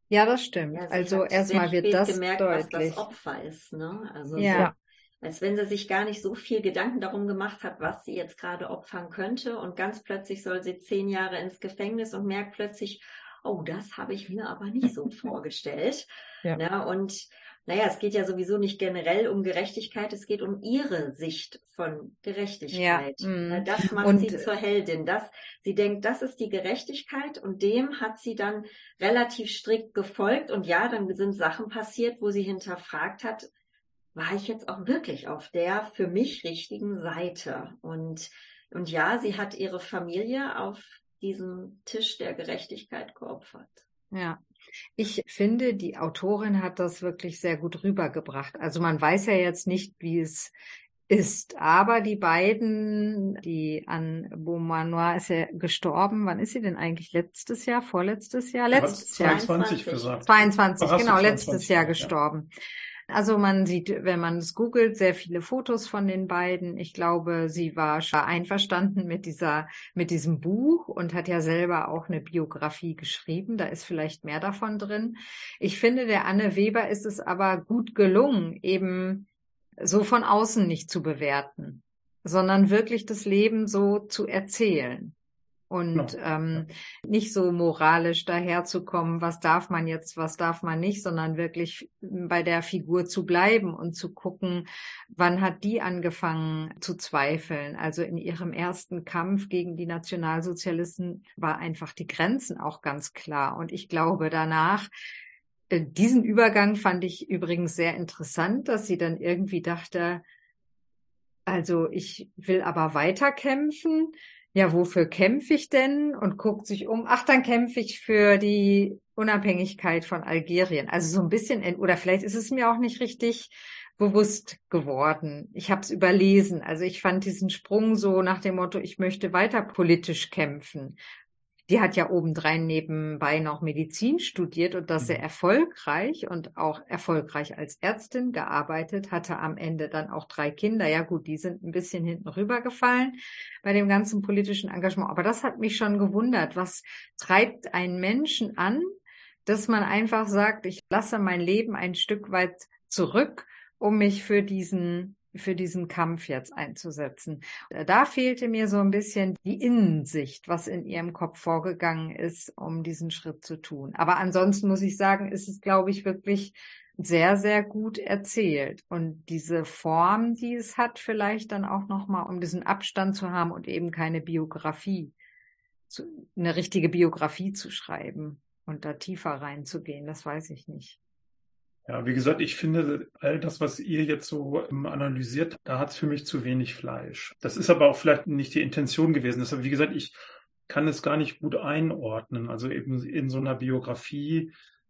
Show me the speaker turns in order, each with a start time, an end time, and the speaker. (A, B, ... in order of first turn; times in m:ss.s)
0:00.1-0:03.1 A
0:00.7-0:04.7 B
0:04.4-0:04.7 A
0:05.2-0:33.5 B
0:22.7-0:24.5 A
0:34.1-0:43.8 B
0:44.1-0:44.4 A
0:45.0-0:50.5 A
0:51.1-0:59.5 A
0:58.7-1:02.1 C
0:58.8-1:00.2 B
1:00.2-1:02.5 A
1:03.1-1:19.3 A
1:19.8-1:25.1 A
1:25.7-1:44.9 A
1:25.9-1:26.6 C
1:45.7-1:50.2 A
1:51.5-2:11.0 A
2:11.7-2:28.9 A
2:29.4-2:55.1 A
2:55.9-3:01.0 A
3:01.8-3:14.5 C